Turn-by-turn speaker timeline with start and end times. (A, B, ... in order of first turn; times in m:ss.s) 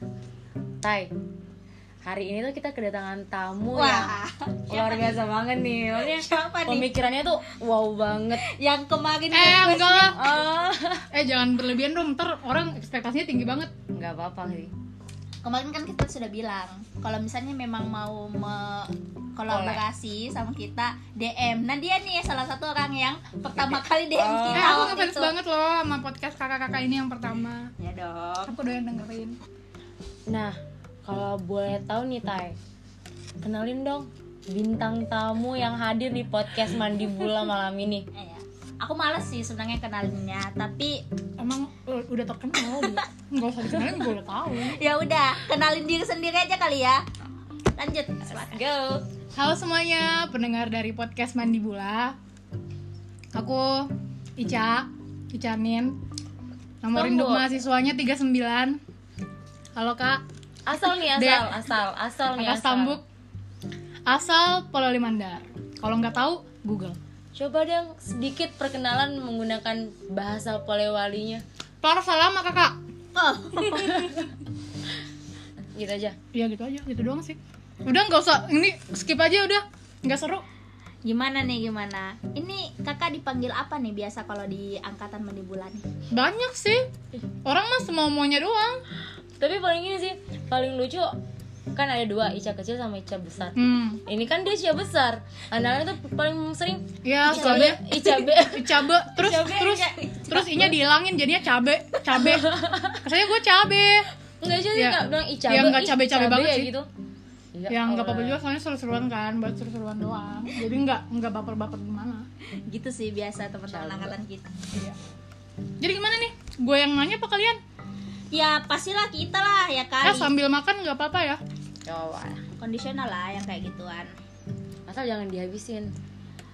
0:00.8-0:01.1 A
0:02.0-0:04.1 A
0:03.7-0:05.1 B
0:04.7-0:08.4 A
0:06.0-0:06.9 B
0:08.4-0:10.2 B
0:09.3-0:10.2 C
0:10.2-0:11.1 A
0:11.1-0:13.7 C
0:13.9-0:14.7 A
0:15.4-0:25.3 B
0:19.5-0:19.8 A
0:23.6-0:24.9 A
0:24.5-0:27.7 C
0:27.8-0:28.5 B
0:28.5-0:29.4 C
0:30.3-0:32.6 A
0:33.4-0:38.1 A
0:38.1-0:41.0 B
0:41.4-0:44.8 C
0:42.6-0:43.0 B
0:44.6-0:47.0 B
0:47.8-0:48.6 B
0:48.3-0:49.0 A
0:49.3-0:52.2 C
0:53.3-0:56.0 C
0:56.8-0:58.8 C
0:56.9-0:57.5 A
0:59.8-1:00.2 C
1:00.6-1:03.0 A
1:01.1-1:01.5 C
1:02.3-1:03.0 C
1:04.0-1:07.0 C
1:07.3-1:11.4 A
1:11.8-1:12.8 C
1:13.1-1:14.1 B
1:13.6-1:14.0 C
1:15.7-1:16.2 A
1:16.3-1:20.4 C
1:21.0-1:25.8 B
1:26.1-1:28.8 C
1:29.4-1:31.2 A
1:31.7-1:39.8 A
1:33.6-1:34.0 C
1:37.0-1:44.1 C
1:37.3-1:37.7 B
1:39.6-1:40.6 B
1:42.2-1:43.0 A
1:44.4-1:46.9 A
1:44.7-1:46.7 C
1:47.5-1:48.4 A
1:47.7-1:52.3 C
1:52.7-1:54.5 B
1:53.7-1:54.1 A
1:55.8-1:57.6 C
1:58.3-2:00.3 B
2:00.0-2:01.4 C
2:01.8-2:02.4 A
2:02.6-2:04.1 B
2:04.9-2:05.9 A